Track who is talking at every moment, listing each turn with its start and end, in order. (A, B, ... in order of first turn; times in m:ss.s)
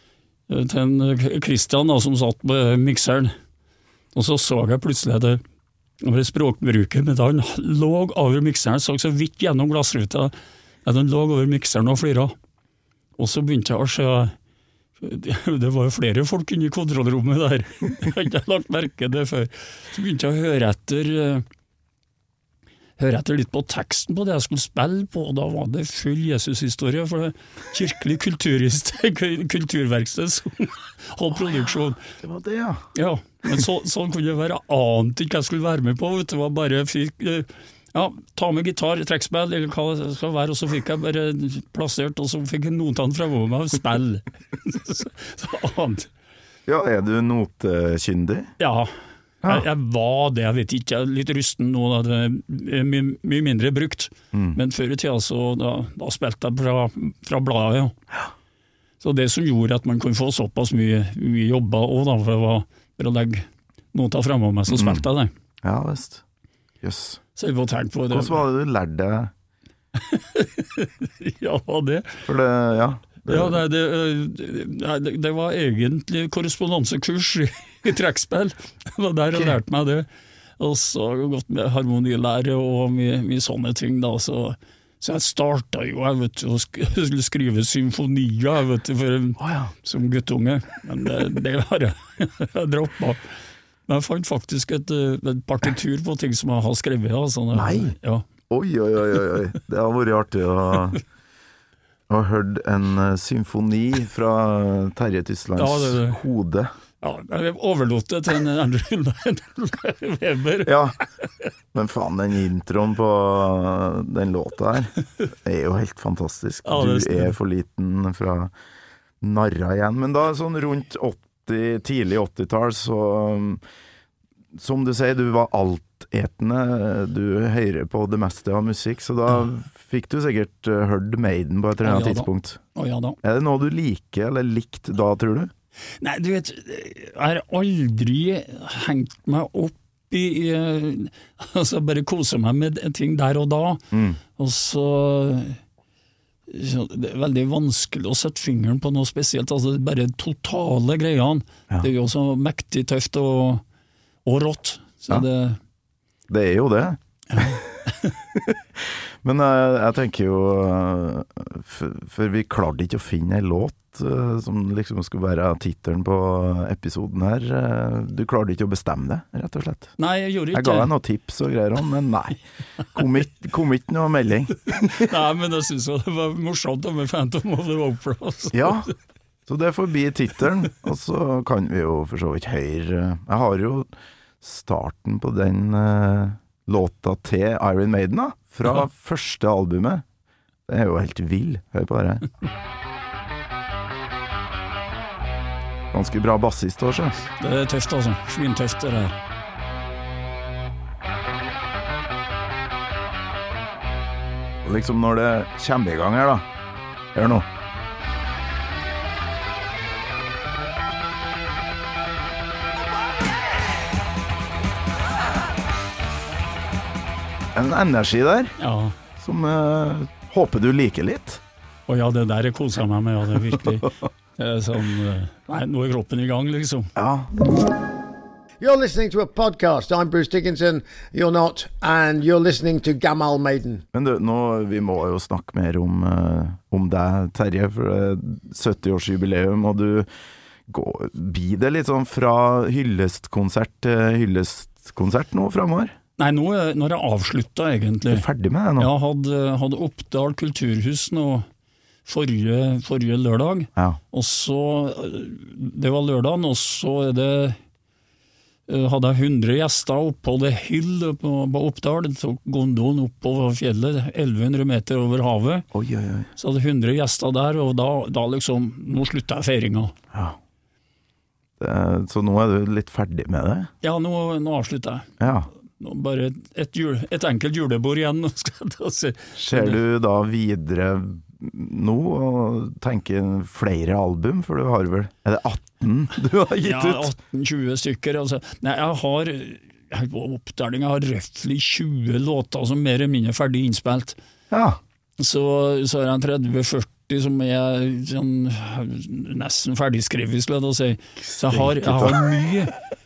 0:00.5-0:03.3 A
0:04.1-0:05.4 A
0:06.0-0:10.3 A
0:10.8-0:12.4 A
0:13.2-0:14.3 A
0:15.0-0:21.4 A
0:23.0-0:32.0 A
0:32.1-0:32.9 B
0:32.9-0:46.1 A
0:46.7-0:48.5 B
0:48.6-0:48.9 A
0:49.4-0:57.9 A
0:54.3-0:54.6 B
0:59.0-1:05.3 A
1:04.7-1:05.0 B
1:05.6-1:06.2 B
1:06.8-1:07.2 B
1:07.4-1:08.4 A
1:08.1-1:09.3 B
1:09.9-1:12.2 A
1:12.2-1:13.6 B
1:13.3-1:20.1 A
1:20.6-1:33.3 A
1:29.4-1:29.7 B
1:33.9-1:38.2 A
1:37.5-1:38.0 B
1:38.5-1:41.0 B
1:42.1-1:46.7 B
1:45.6-1:46.2 A
1:47.0-1:50.7 A
1:50.6-1:51.0 B
1:51.7-1:58.5 B
1:56.6-1:57.4 A
1:59.2-2:03.6 B
2:04.5-2:12.6 B
2:11.8-2:13.2 A
2:13.2-2:15.5 B
2:16.0-2:23.8 A
2:23.9-2:24.2 B
2:24.4-2:25.6 A
2:26.5-2:33.6 A
2:34.2-2:35.6 A
2:36.3-2:37.8 B
2:37.3-2:38.1 A
2:38.3-2:49.9 B
2:50.0-2:50.9 A
2:50.5-2:52.4 B
2:52.9-2:55.1 B
2:54.8-2:58.9 A
2:58.5-2:58.9 B
2:59.5-3:10.0 B
3:10.7-3:12.3 B
3:15.9-3:17.2 B
3:17.3-3:19.2 A
3:24.6-3:26.4 B
3:27.1-3:27.5 B
3:37.5-3:38.6 B
3:38.6-3:39.0 A
3:39.2-3:41.4 B
3:41.9-3:46.9 A
3:47.0-3:47.3 B
3:48.6-3:53.8 C
3:53.9-4:00.1 B
4:00.7-4:05.9 B
4:06.2-4:08.2 A
4:08.1-4:08.9 B
4:08.8-4:11.5 A
4:12.0-4:17.6 A
4:18.7-4:25.7 A
4:25.7-4:26.3 B
4:26.4-4:29.9 A
4:31.6-4:33.7 B
4:33.8-4:35.1 A
4:35.2-4:35.5 B
4:35.8-4:39.8 A
4:39.4-4:47.1 B
4:46.6-4:54.2 A
4:54.5-4:54.8 B
4:55.2-5:02.7 A
5:01.2-5:02.2 B